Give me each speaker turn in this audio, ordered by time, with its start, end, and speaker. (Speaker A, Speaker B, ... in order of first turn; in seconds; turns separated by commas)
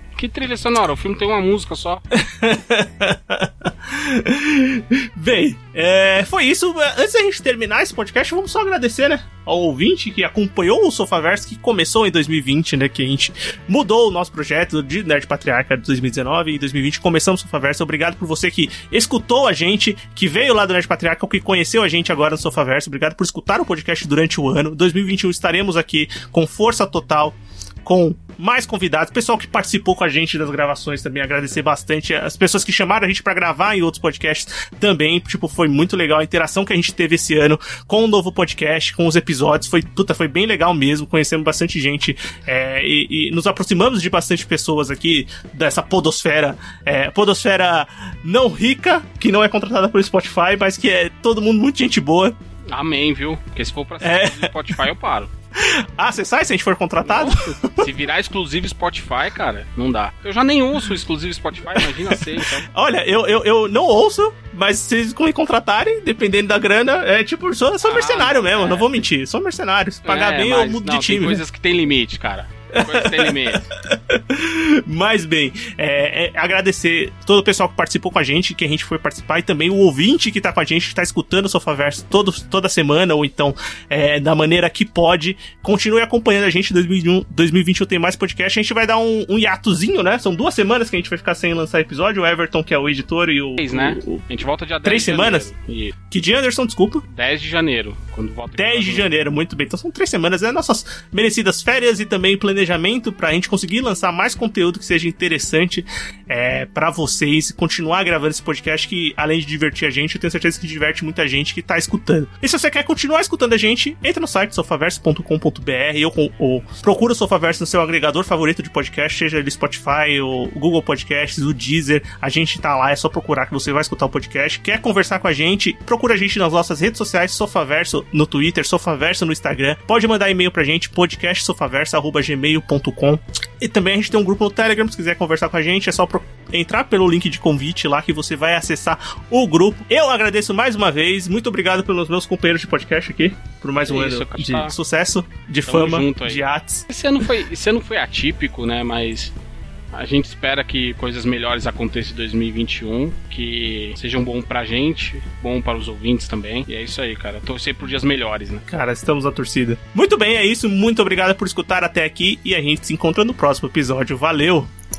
Speaker A: 0.1-2.0, Speaker B: 2.1-52.4, Speaker A: 52.7-55.3, Speaker B: 54.0-54.7, Speaker B: 55.6-57.9, Speaker A: 57.0-62.7, Speaker B: 61.8-62.1, Speaker B: 62.7-71.4, Speaker A: 67.8-69.0, Speaker A: 70.0-73.7, Speaker B: 72.7-94.2, Speaker A: 93.6-95.9, Speaker B: 94.8-95.5, Speaker B: 96.1-97.0, Speaker A: 97.1-99.1, Speaker B: 98.6-146.8, Speaker A: 143.9-144.7, Speaker A: 145.7-149.3, Speaker A: 149.9-158.7, Speaker B: 158.7-164.7